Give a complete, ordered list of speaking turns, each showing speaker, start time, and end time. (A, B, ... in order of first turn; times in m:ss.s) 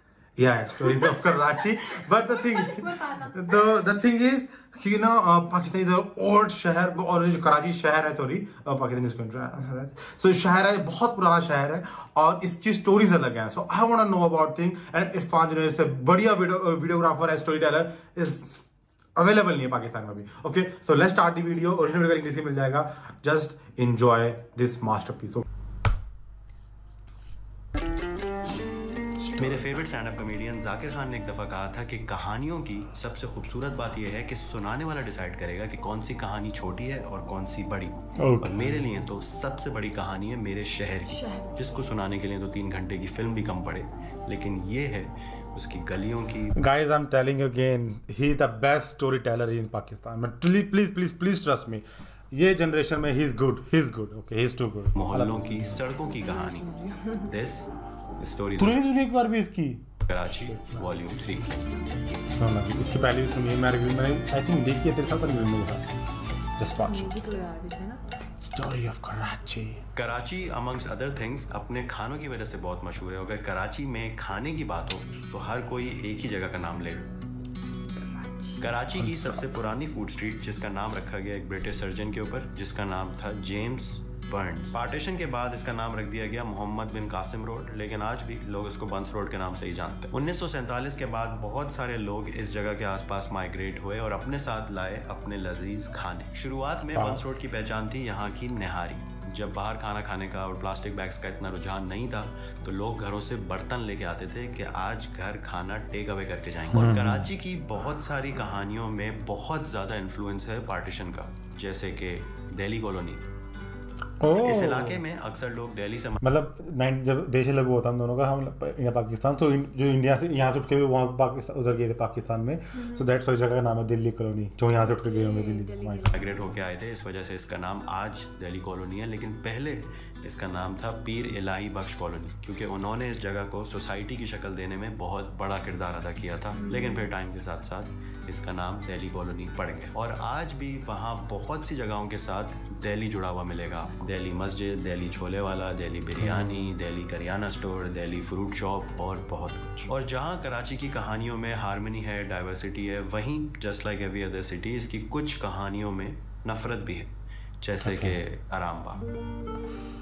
0:00.4-0:18.6 A
0:01.0-0:03.8 B
0:19.2-0:25.4 A
0:29.2-0:29.8 A
0:29.4-0:46.6 C
0:38.2-0:38.8 A
0:41.1-0:41.8 B
0:46.6-0:55.8 A
0:55.0-0:58.9 C
0:56.0-0:57.3 B
0:58.6-1:00.9 A
1:00.1-1:01.5 C
1:02.3-1:06.0 A
1:06.6-1:07.2 A
1:06.8-1:08.0 B
1:08.4-1:09.8 A
1:10.0-1:17.1 C
1:18.6-1:53.2 C
1:18.9-1:19.5 A
1:36.9-1:37.2 A
1:46.7-1:47.3 A
1:54.2-1:55.0 A
1:54.3-1:56.2 C
1:56.2-2:06.1 A
2:02.8-2:03.0 B
2:04.8-2:06.3 B
2:06.1-2:39.0 C
2:16.6-2:17.0 B
2:26.2-2:26.7 A
2:37.8-2:38.2 A